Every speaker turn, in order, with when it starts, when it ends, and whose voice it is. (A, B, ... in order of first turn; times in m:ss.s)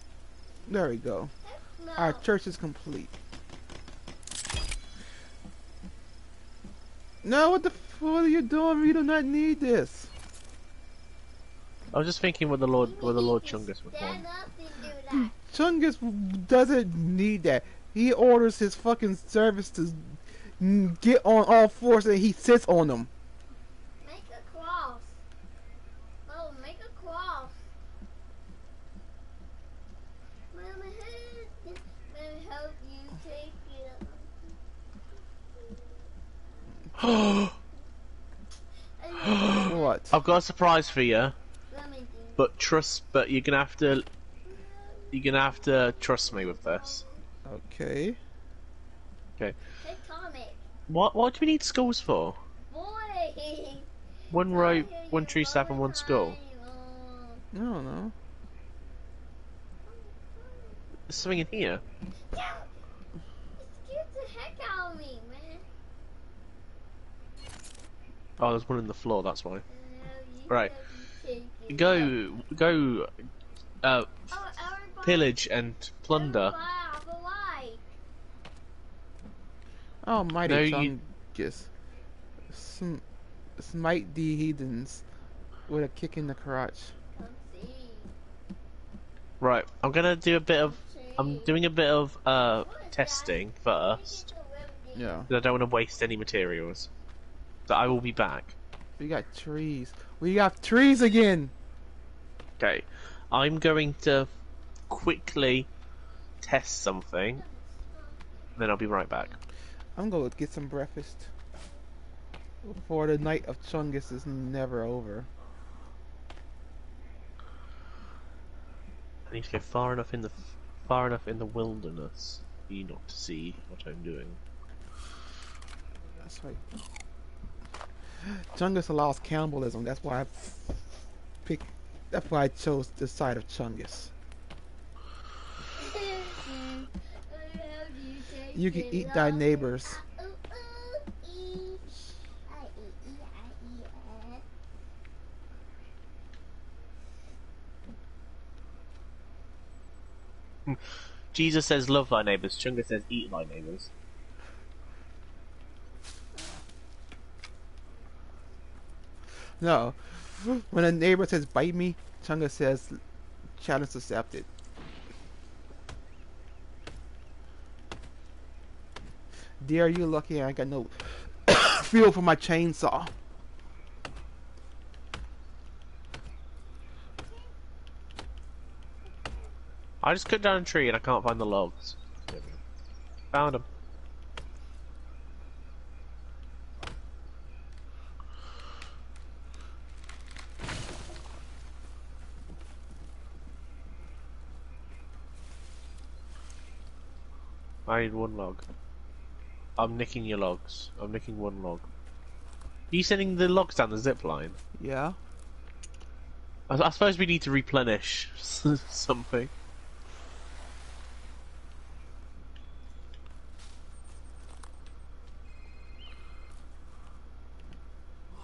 0:00.6-0:01.3 A
0:01.4-0:02.2 B
0:02.0-0:03.1 A
0:07.2-0:10.1 A
0:11.9-0:14.2 C
0:12.8-0:15.4 B
0:15.3-0:23.1 A
0:24.0-0:25.2 B
0:26.3-0:27.6 B
0:30.5-0:34.5 B
0:37.0-0:37.5 C
0:39.0-0:40.2 B
0:39.3-0:40.2 A
0:40.1-0:41.3 C
0:41.7-0:42.5 B
0:42.4-0:44.0 C
0:44.5-0:47.2 B
0:45.1-0:47.0 C
0:47.4-0:48.2 A
0:49.8-0:50.6 B
0:50.9-0:52.4 C
0:52.7-0:57.4 B
0:54.3-0:56.4 C
0:57.5-0:58.1 A
0:59.8-1:00.8 B
1:01.1-1:01.8 C
1:02.3-1:02.7 B
1:03.6-1:05.6 B
1:08.4-1:09.6 C
1:09.7-1:12.1 B
1:11.7-1:13.1 C
1:13.8-1:14.1 C
1:14.3-1:15.4 B
1:15.0-1:16.6 C
1:16.1-1:17.9 B
1:20.0-1:21.7 A
1:20.4-1:20.9 C
1:22.5-1:23.0 A
1:23.6-1:25.0 A
1:25.7-1:26.9 A
1:27.1-1:28.1 B
1:29.4-1:34.2 C
1:30.6-1:31.6 B
1:32.6-1:35.2 B
1:34.9-1:35.3 A
1:35.3-1:36.9 C
1:37.7-1:38.6 C
1:39.0-1:41.5 A
1:42.6-1:44.3 C
1:44.9-1:45.7 C
1:46.4-1:47.4 C
1:47.4-1:48.6 B
1:48.6-1:49.3 C
1:49.1-1:49.4 B
1:49.9-1:51.3 A
1:52.6-1:55.3 A
1:59.3-2:04.4 C
2:06.2-2:06.6 A
2:08.2-2:10.8 A
2:11.4-2:14.1 A
2:15.7-2:24.4 B
2:18.5-2:20.0 A
2:30.7-2:33.9 C
2:39.6-2:43.0 A
2:43.6-2:44.5 A
2:49.6-2:53.1 A
3:00.0-3:02.6 C
3:03.3-3:03.6 C
3:17.8-3:18.6 C
3:19.8-3:21.8 C
3:22.9-3:24.6 C
3:24.8-3:25.2 A
3:26.7-3:29.5 C